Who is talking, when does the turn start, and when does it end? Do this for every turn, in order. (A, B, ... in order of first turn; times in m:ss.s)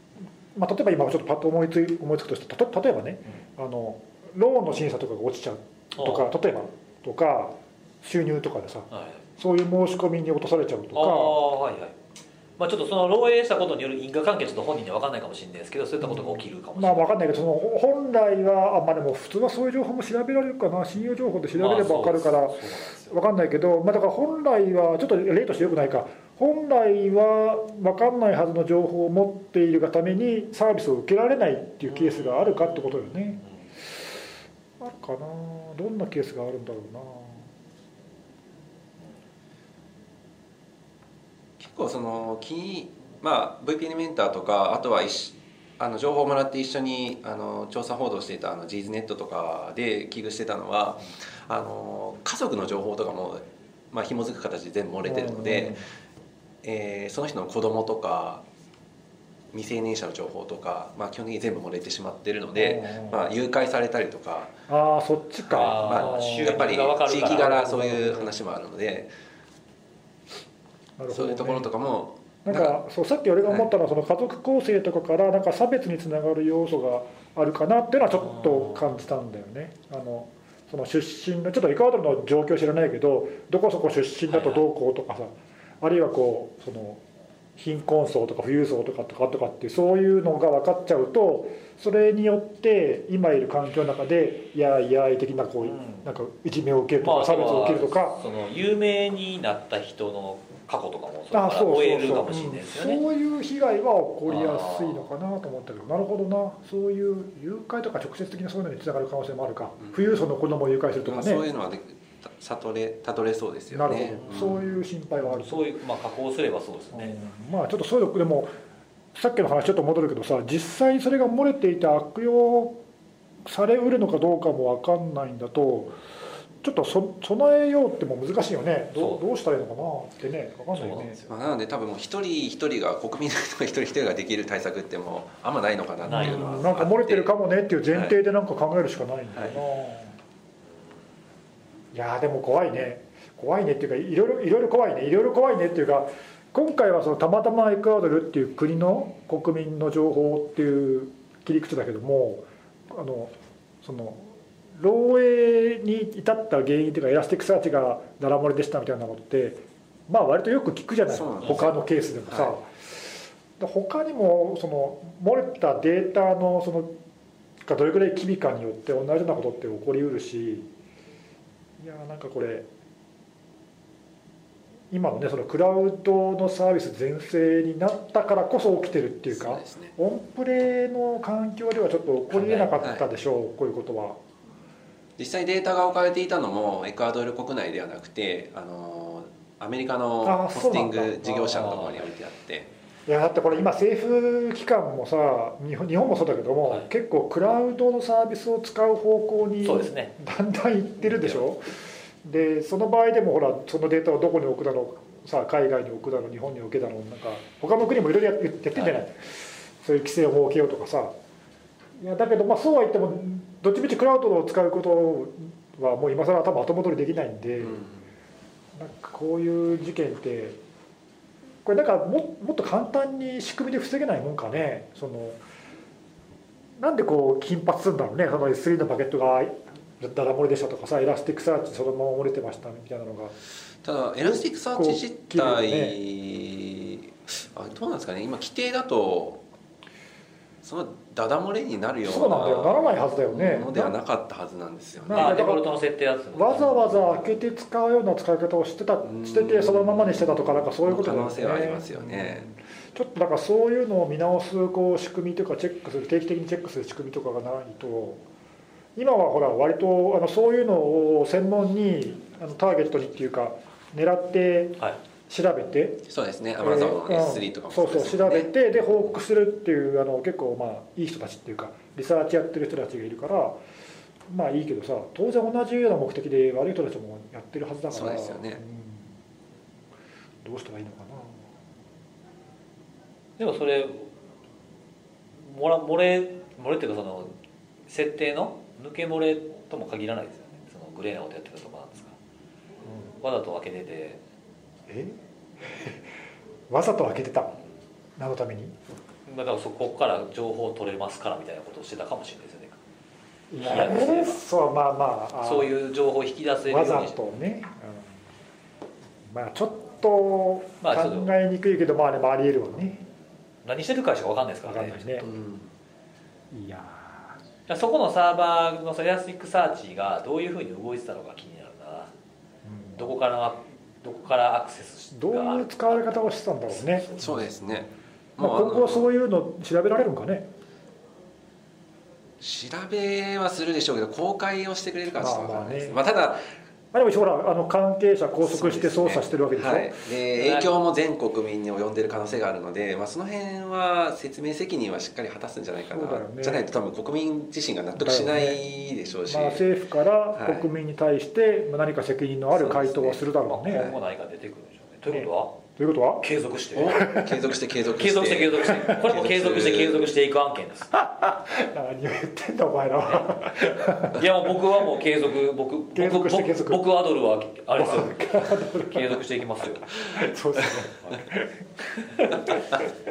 0:00.6-0:11.4 A
0:06.0-0:06.3 B
0:08.9-0:09.2 B
0:10.9-0:12.0 B
0:12.6-0:17.2 B
0:16.0-0:33.4 A
0:21.5-0:23.2 B
0:31.9-0:32.9 B
0:34.8-0:37.4 A
0:41.6-0:55.8 C
0:55.0-0:55.8 A
0:56.6-0:58.4 C
0:59.5-1:04.6 C
1:02.6-1:03.3 A
1:04.7-1:06.7 A
1:05.5-1:07.9 B
1:05.6-1:09.1 C
1:07.3-1:08.3 A
1:11.0-1:11.7 A
1:11.1-1:12.8 C
1:12.4-1:27.0 A
1:24.3-1:24.6 B
1:27.6-1:38.2 A
1:35.6-1:36.1 B
1:37.0-1:43.0 B
1:41.3-1:51.4 A
1:44.3-1:45.0 B
1:49.8-1:50.1 C
1:51.0-1:54.7 C
1:53.7-1:55.7 A
1:55.2-1:57.2 B
1:56.9-1:58.5 A
1:59.1-2:02.8 A
2:03.4-2:06.0 A
2:06.6-2:11.2 A
2:10.7-2:11.3 B
2:11.3-2:17.3 C
2:16.0-2:16.7 B
2:16.1-2:20.2 A
2:17.9-2:18.2 C
2:21.9-2:42.7 A
2:41.1-2:42.6 C
2:43.6-2:47.0 A
2:47.6-2:50.7 A
2:51.8-2:52.7 A
2:54.9-3:04.2 A
2:59.3-2:59.9 C
3:02.3-3:02.8 B
3:02.8-3:03.0 C
3:05.2-3:12.7 C
3:10.2-3:11.7 A
3:11.6-3:12.0 B
3:13.1-3:31.1 A
3:19.6-3:20.1 B
3:21.0-3:21.4 B
3:32.0-3:37.8 A
3:37.6-3:37.9 C
3:38.7-3:40.6 A
3:41.6-3:45.4 A
3:46.8-3:53.3 A
3:53.8-3:59.4 C
3:54.2-3:56.0 A
4:00.6-4:05.4 C
4:02.0-4:04.0 A
4:05.0-4:05.7 A
4:05.1-4:07.3 B
4:06.3-4:18.2 A
4:09.0-4:12.5 C
4:19.0-4:26.0 A
4:26.1-4:28.9 C
4:26.6-4:33.6 A
4:34.3-4:39.1 A
4:37.9-4:38.6 C
4:40.4-4:41.4 A
4:43.4-4:44.1 B
4:45.4-4:47.3 B
4:47.9-4:52.2 B
4:53.2-4:54.2 B
4:54.9-4:56.0 A
4:56.7-4:57.6 A
4:58.2-4:58.7 A
4:59.3-5:02.8 B
5:03.5-5:05.7 A
5:03.6-5:04.4 B
5:05.4-5:07.2 B
5:06.7-5:08.1 A
5:09.3-5:13.0 A
5:10.8-5:11.3 B
5:13.6-5:15.3 B
5:14.6-5:15.3 A
5:15.3-5:15.7 C
5:16.5-5:17.4 A
5:17.7-5:22.1 B
5:22.7-5:23.0 A
5:23.0-5:27.4 B
5:25.1-5:27.1 A
5:27.2-5:29.1 C
5:28.4-5:30.5 A
5:32.4-5:36.4 C
5:35.2-5:36.0 A
5:36.9-5:40.0 A
5:38.4-5:49.6 C
5:40.3-5:40.7 B
5:45.9-5:46.7 A
5:48.0-5:48.6 A
5:49.3-5:53.9 A
5:50.4-5:50.6 C
5:52.6-5:53.0 C
5:52.7-5:55.6 B
5:55.1-5:56.3 A
5:56.2-5:57.0 B
5:56.7-6:00.1 C
5:56.9-5:57.6 A
5:58.0-6:00.9 B
6:01.0-6:04.2 A
6:04.1-6:10.0 B
6:06.0-6:06.8 A
6:07.8-6:09.2 A
6:09.9-6:12.7 A